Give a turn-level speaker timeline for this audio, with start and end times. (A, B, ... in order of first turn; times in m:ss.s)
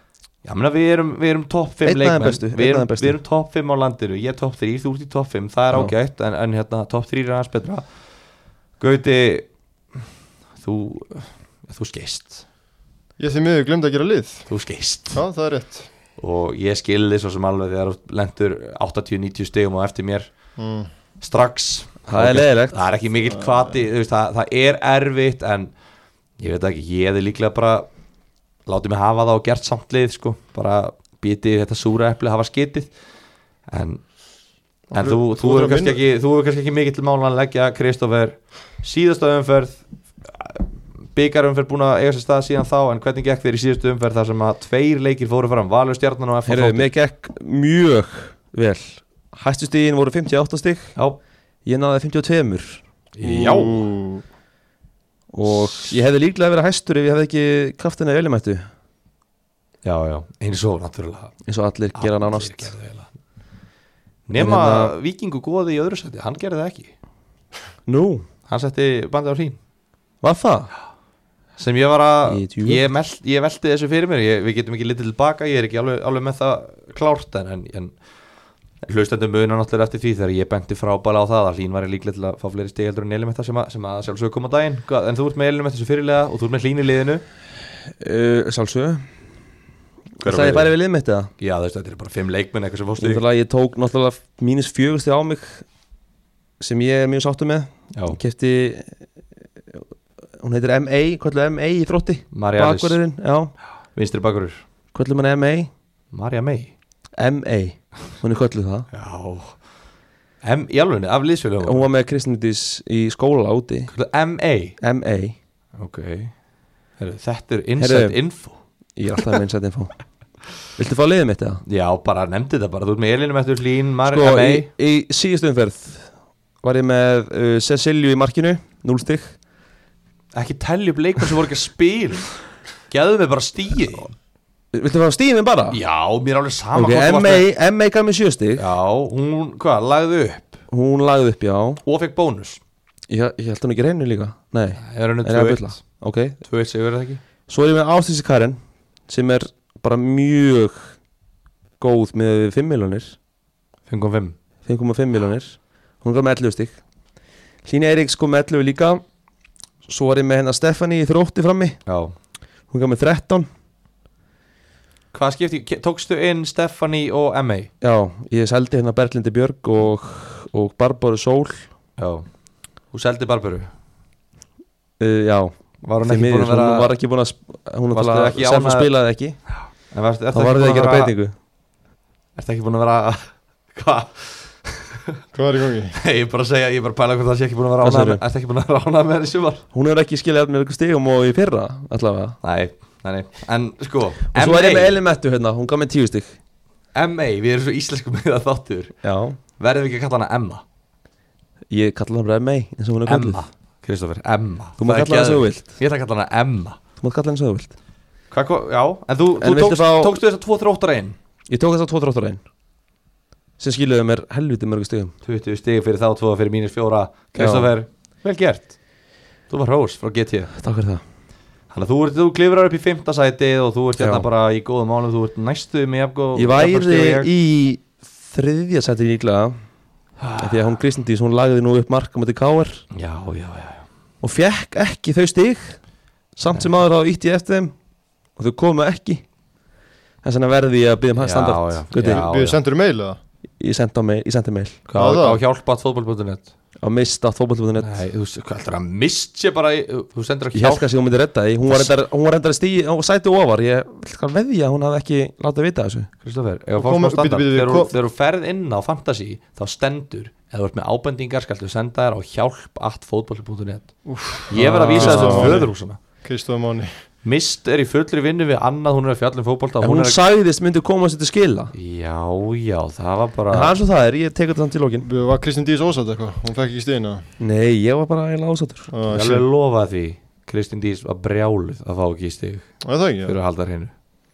0:00.4-0:07.8 A
0:01.8-0:03.2 B
0:08.8-0:09.5 A
0:10.6-0:12.4 A
0:13.2-0:14.5 C
0:14.5-0:15.2 A
0:15.1-0:15.9 C
0:16.2-0:20.3 A
0:20.6-0:20.9 C
0:21.2-0:25.7 A
0:22.1-0:22.8 B
0:26.4-0:27.9 A
0:28.7-0:32.9 A
0:33.7-0:34.0 A
0:34.9-0:36.0 C
0:34.9-0:46.9 A
0:46.5-0:50.9 B
0:51.6-0:52.8 B
0:53.1-0:53.9 A
0:53.2-0:54.2 C
0:55.3-0:58.6 B
0:59.8-1:01.3 A
1:01.5-1:02.7 B
1:02.0-1:03.1 A
1:04.3-1:06.9 A
1:04.3-1:04.9 B
1:07.9-1:08.2 B
1:08.5-1:09.6 A
1:10.2-1:10.7 B
1:11.6-1:17.9 A
1:12.3-1:12.8 B
1:18.8-1:27.2 A
1:28.0-1:29.0 B
1:30.2-1:31.3 B
1:30.2-1:30.7 A
1:31.4-1:33.2 A
1:33.0-1:35.6 B
1:36.6-1:38.9 B
1:37.9-1:38.2 A
1:40.4-1:43.5 B
1:42.3-1:43.0 A
1:44.0-1:44.6 A
1:44.9-1:45.7 B
1:46.1-1:46.7 A
1:47.2-1:48.9 B
1:48.9-1:49.6 A
1:50.4-1:51.9 A
1:51.6-1:53.9 B
1:53.9-1:54.8 A
1:54.8-1:55.4 B
1:55.8-1:56.3 A
1:57.0-1:58.6 A
1:57.8-1:58.2 B
1:59.0-1:59.9 B
2:00.8-2:01.6 B
2:01.7-2:04.7 A
2:04.1-2:06.1 B
2:06.6-2:09.4 B
2:10.3-2:12.3 A
2:12.9-2:14.1 A
2:14.7-2:15.8 B
2:15.7-2:17.5 A
2:16.7-2:18.6 B
2:18.6-2:20.6 A
2:20.7-2:21.8 B
2:21.8-2:22.6 A
2:23.1-2:26.4 B
2:24.8-2:25.8 A
2:26.4-2:27.2 A
2:27.5-2:30.9 B
2:31.8-2:33.2 B
2:33.9-2:34.4 A
2:34.6-2:36.8 B
2:37.6-2:39.0 B
2:39.9-2:41.8 B
2:41.9-2:42.1 A
2:42.7-2:43.5 B
2:45.1-2:47.7 A
2:47.8-2:51.7 B
2:52.0-2:52.3 A
2:52.9-2:53.7 A
2:55.0-2:59.4 B
2:55.8-2:56.9 A
2:57.9-2:58.9 A
2:59.9-3:01.1 A
3:00.3-3:01.3 B
3:02.4-3:05.0 A
3:05.3-3:06.0 C
3:05.9-3:09.6 A
3:07.8-3:08.2 B
3:09.7-3:12.4 B
3:12.4-3:15.0 A
3:14.3-3:16.4 B
3:17.0-3:18.9 A
3:19.0-3:19.4 B
3:19.6-3:20.6 A
3:21.7-3:23.4 B
3:23.1-3:26.8 A
3:24.8-3:25.7 B
3:27.0-3:27.7 B
3:28.3-3:31.2 A
3:29.4-3:30.2 B
3:31.5-3:32.4 B
3:33.6-3:35.1 B
3:35.2-3:38.7 A
3:37.4-3:37.7 B
3:39.5-3:40.5 A
3:40.5-3:41.0 B
3:41.7-3:47.3 A
3:44.0-3:44.3 B
3:46.4-3:49.6 B
3:50.2-3:50.7 A
3:50.4-3:52.8 B
3:52.9-3:53.8 A
3:54.2-3:55.8 B
3:56.4-3:57.7 B
3:58.4-3:59.3 B
4:00.2-4:02.2 B
4:01.2-4:02.6 A
4:02.0-4:03.2 C
4:03.6-4:04.8 B
4:04.9-4:06.5 A
4:05.0-4:05.4 C
4:06.8-4:08.0 B
4:07.8-4:10.9 A
4:10.5-4:16.1 B
4:11.7-4:12.0 A
4:16.2-4:23.9 A
4:16.8-4:17.9 C
4:24.0-4:25.7 C
4:24.5-4:26.0 A
4:24.6-4:25.7 B
4:26.2-4:26.9 C
4:27.2-4:30.2 A
4:29.8-4:31.7 B
4:31.7-4:33.8 A
4:33.5-4:35.1 B
4:35.0-4:37.2 C
4:37.4-4:38.9 B
4:38.9-4:39.5 C
4:39.1-4:42.7 A
4:42.8-4:43.4 C
4:43.2-4:43.9 A